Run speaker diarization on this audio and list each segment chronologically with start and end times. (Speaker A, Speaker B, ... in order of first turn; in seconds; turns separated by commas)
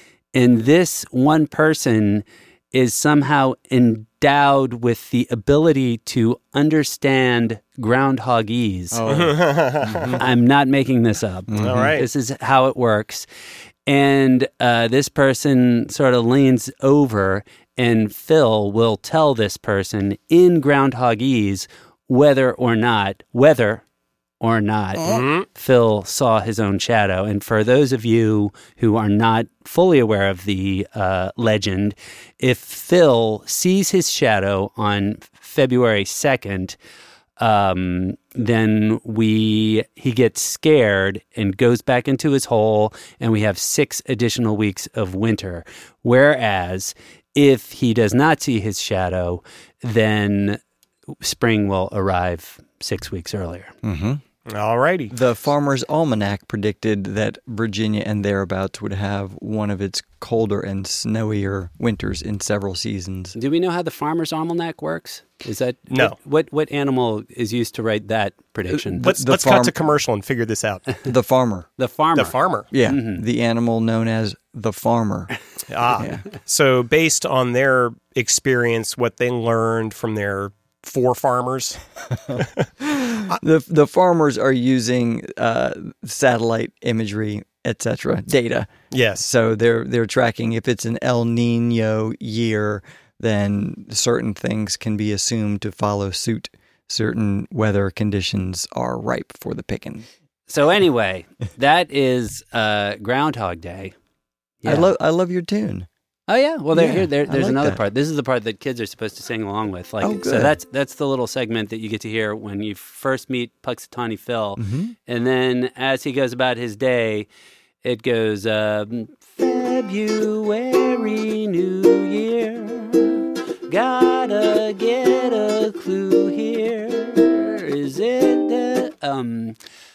Speaker A: 0.3-9.0, Speaker B: 8.9-10.3, Speaker C: 9.1-10.2, Speaker A: 10.1-13.3, Speaker B: 11.5-11.9, Speaker C: 11.6-12.1, Speaker A: 13.9-23.8, Speaker A: 24.4-36.8, Speaker C: 25.0-25.5, Speaker A: 37.4-50.6, Speaker A: 51.2-53.7, Speaker B: 53.8-54.2, Speaker C: 54.5-55.1, Speaker B: 55.1-63.4, Speaker A: 63.3-69.1, Speaker C: 65.9-66.2, Speaker C: 68.9-70.9, Speaker B: 69.0-69.8, Speaker B: 71.0-71.7, Speaker A: 71.8-73.2, Speaker C: 72.1-72.7, Speaker B: 72.7-75.3, Speaker C: 75.7-81.8, Speaker B: 75.9-76.2, Speaker B: 82.3-100.0, Speaker C: 88.9-89.3, Speaker A: 100.5-103.9, Speaker A: 104.6-104.9, Speaker B: 104.6-105.9, Speaker A: 106.3-117.3, Speaker B: 106.7-107.8, Speaker B: 110.0-110.5, Speaker B: 114.6-114.9, Speaker A: 117.8-129.6